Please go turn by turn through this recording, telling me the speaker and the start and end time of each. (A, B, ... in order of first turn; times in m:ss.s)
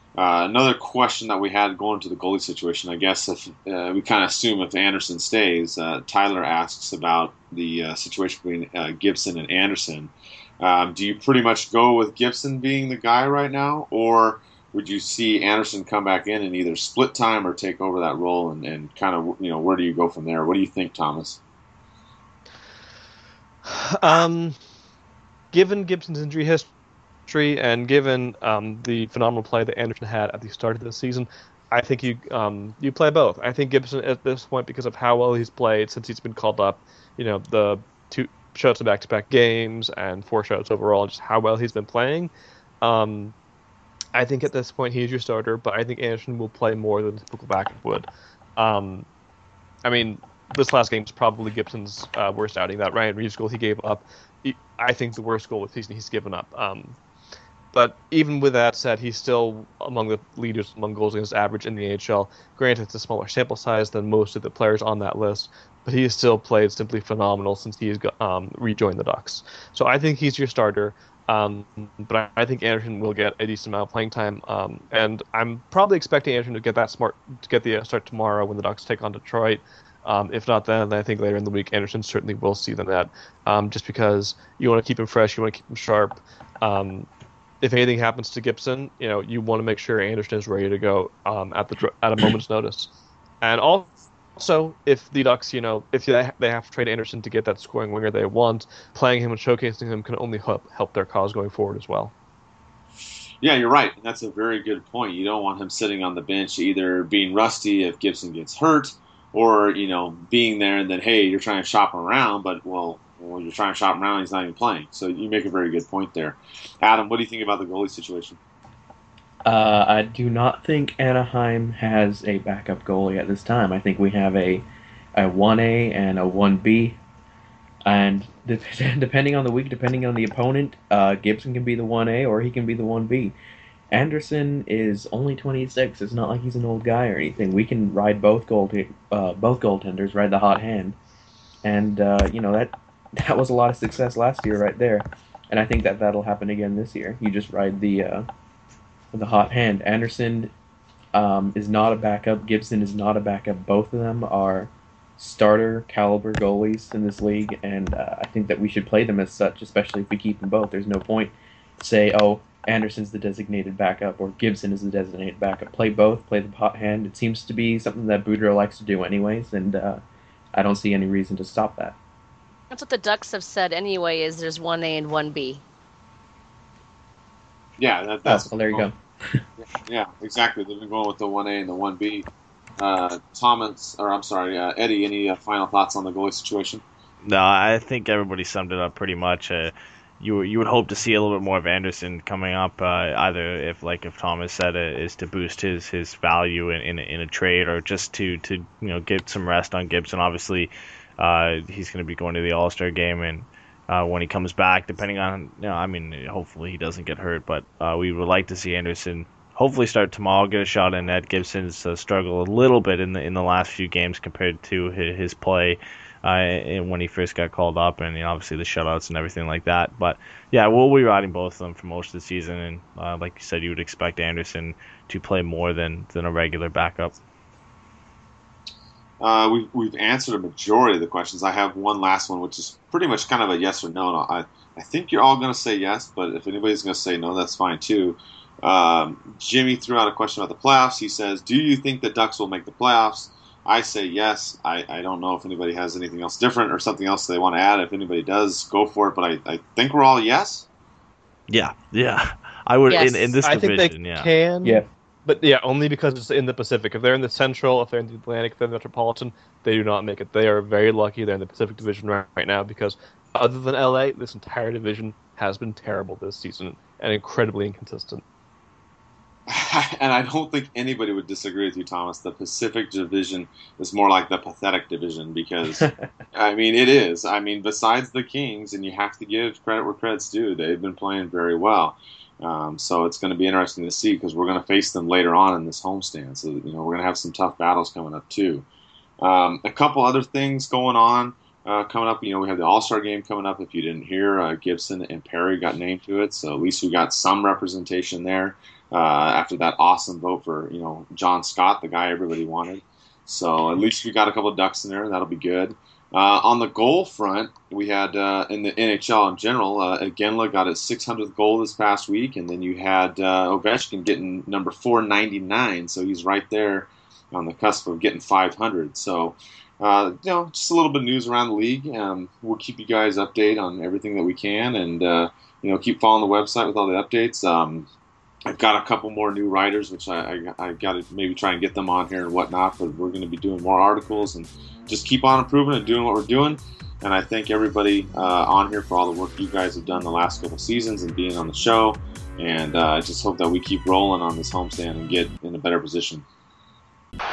0:00.2-0:21.4 A
0:23.6-0:24.6 B
0:25.5-0:26.7 B
0:27.3-0:42.3 B
0:42.8-0:43.3 B
0:44.1-0:49.1 B
0:49.8-0:57.0 B
0:57.7-1:27.1 B
1:27.6-1:42.1 B
1:43.4-1:58.4 A
1:59.4-2:04.6 C
2:05.2-2:07.0 C
2:07.8-2:13.3 C
2:13.9-2:21.0 C
2:21.6-2:28.3 C
2:29.1-2:30.5 C
2:31.1-2:50.0 C
2:50.5-2:52.0 C
2:52.7-2:55.6 D
2:57.8-2:58.9 A
2:58.2-2:59.4 C
2:59.6-3:02.3 A
3:02.8-3:06.8 A
3:07.2-3:47.2 E
3:49.2-4:10.7 A
4:11.5-4:14.3 E
4:12.9-4:28.2 B
4:29.5-4:48.6 A
4:49.2-5:27.9 A
5:28.5-5:46.2 A